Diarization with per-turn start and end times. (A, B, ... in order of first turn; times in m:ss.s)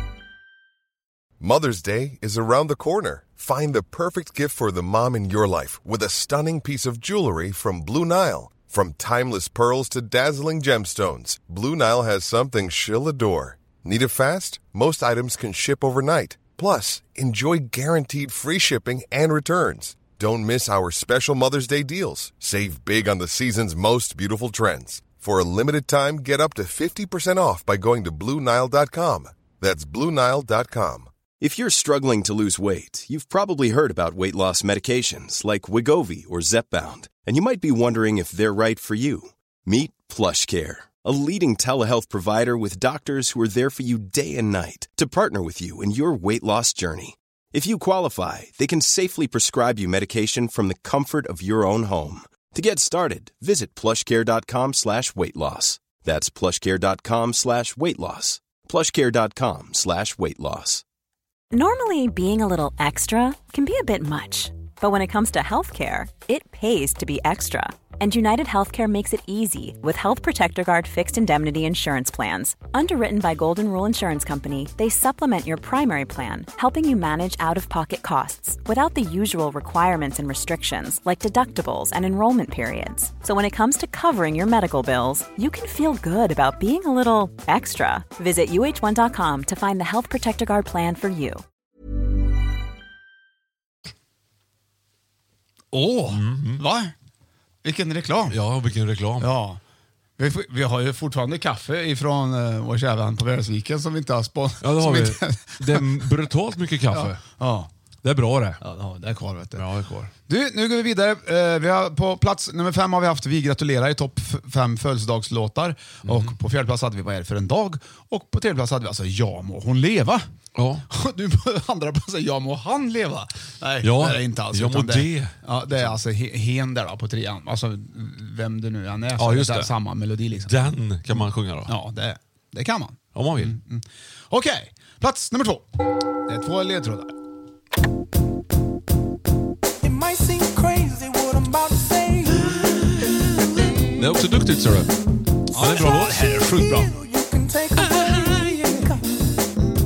0:01.4-0:31.1 A
0:31.4-1:00.8 B
1:01.5-1:31.4 C
1:35.7-1:36.9 D
1:36.1-1:36.6 E
1:37.6-1:38.4 D
1:38.3-1:39.3 E
1:39.2-1:39.6 D
1:40.2-1:46.2 D
1:44.6-1:47.2 E
1:46.9-1:47.7 D
1:48.0-1:48.6 E
1:48.6-1:49.6 D
1:49.6-1:50.1 E
1:50.3-2:00.3 D
1:56.0-1:56.3 E
2:00.5-2:00.8 E
2:00.8-2:10.6 D
2:03.8-2:06.0 E
2:09.2-2:09.7 E
2:10.4-2:11.7 E
2:11.6-2:15.7 D
2:13.1-2:13.6 E
2:16.3-2:17.1 D
2:19.8-2:22.9 F
2:24.0-2:24.9 E
2:25.5-2:26.9 D
2:25.5-2:26.8 E
2:25.7-2:29.1 F
2:28.0-2:28.4 E